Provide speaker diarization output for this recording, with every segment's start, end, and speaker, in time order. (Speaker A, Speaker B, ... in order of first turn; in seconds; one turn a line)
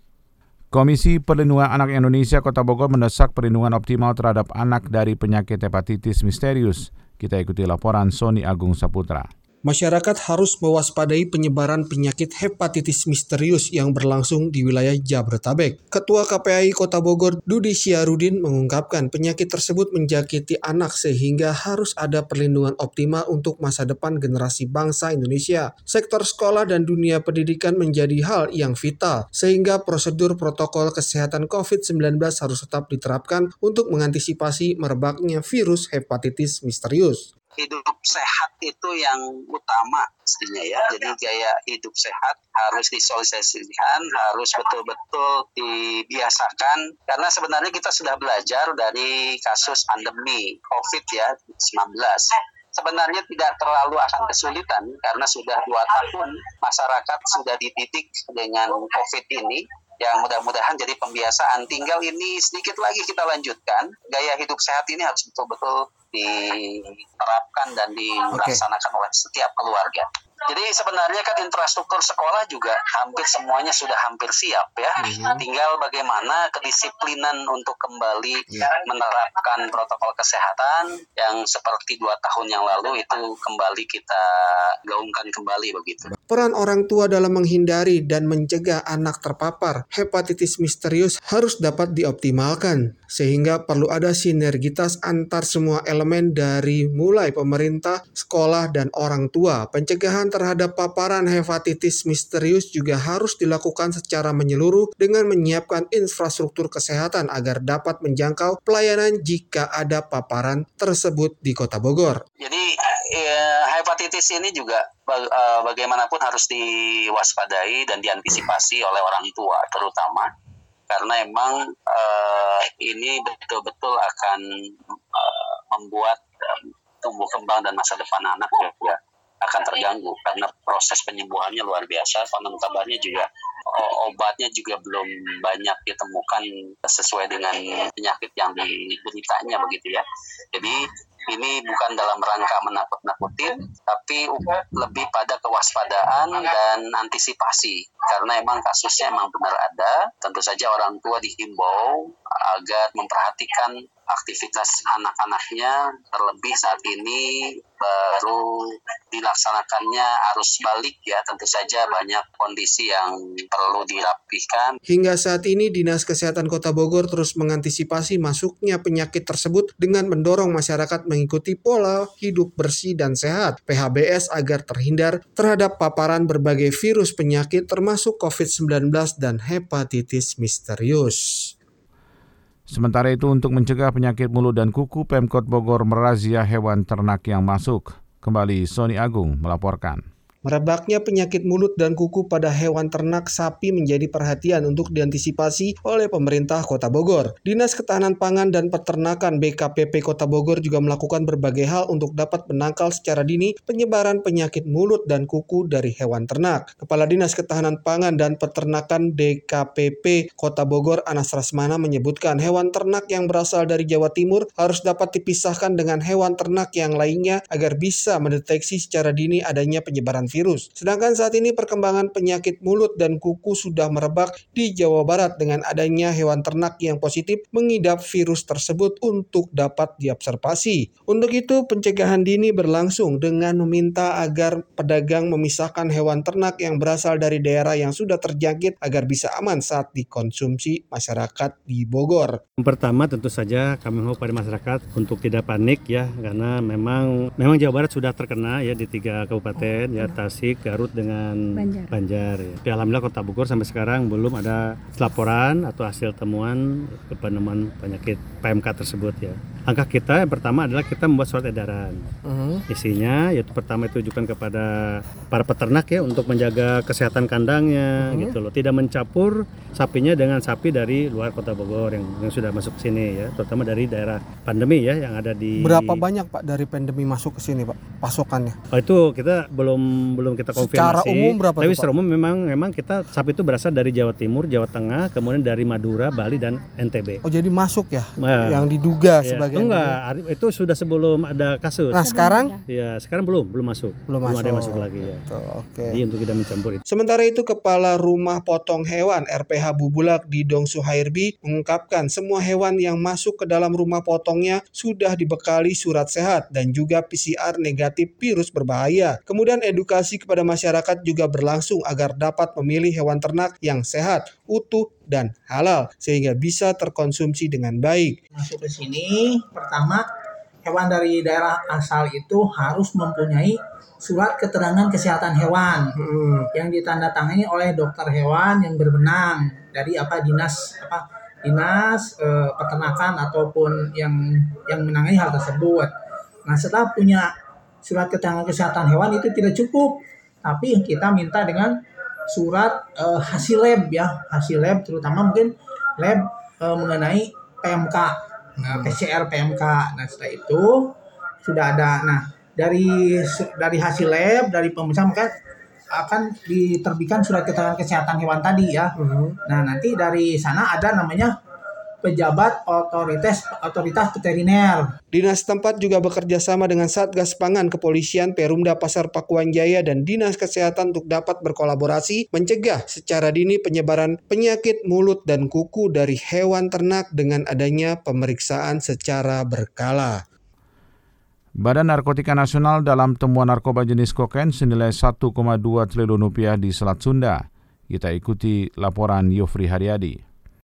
Speaker A: 0.7-9.3
Speaker B: 9.7-37.3
Speaker C: 37.6-86.1
Speaker B: 68.3-68.6
Speaker B: 75.0-75.4
Speaker B: 86.3-112.2
Speaker C: 112.4-120.3
Speaker C: 120.9-124.4
Speaker C: 125.1-140.8
Speaker C: 141.3-164.8
Speaker B: 164.9-181.5
Speaker A: 182.7-190.0
Speaker B: 190.4-242.4
Speaker D: 242.6-262.1
Speaker B: 262.3-262.6
Speaker D: 262.7-276.0
Speaker B: 268.0-268.4
Speaker B: 275.6-278.6
Speaker D: 278.8-287.2
Speaker B: 280.6-281.9
Speaker B: 287.2-290.0
Speaker D: 288.2-288.7
Speaker D: 289.2-292.1
Speaker B: 291.9-292.6
Speaker D: 292.7-295.2
Speaker B: 294.1-296.0
Speaker D: 295.9-296.8
Speaker B: 296.9-318.2
Speaker E: 318.4-320.1
Speaker E: 320.6-325.9
Speaker B: 326.0-326.5
Speaker E: 326.6-335.9
Speaker E: 336.5-337.3
Speaker E: 337.8-341.8
Speaker E: 342.3-350.9
Speaker E: 351.4-355.3
Speaker E: 355.9-358.9
Speaker B: 359.0-359.4
Speaker E: 359.5-361.3
Speaker E: 362.0-364.9
Speaker B: 365.1-380.2
Speaker A: 381.6-390.2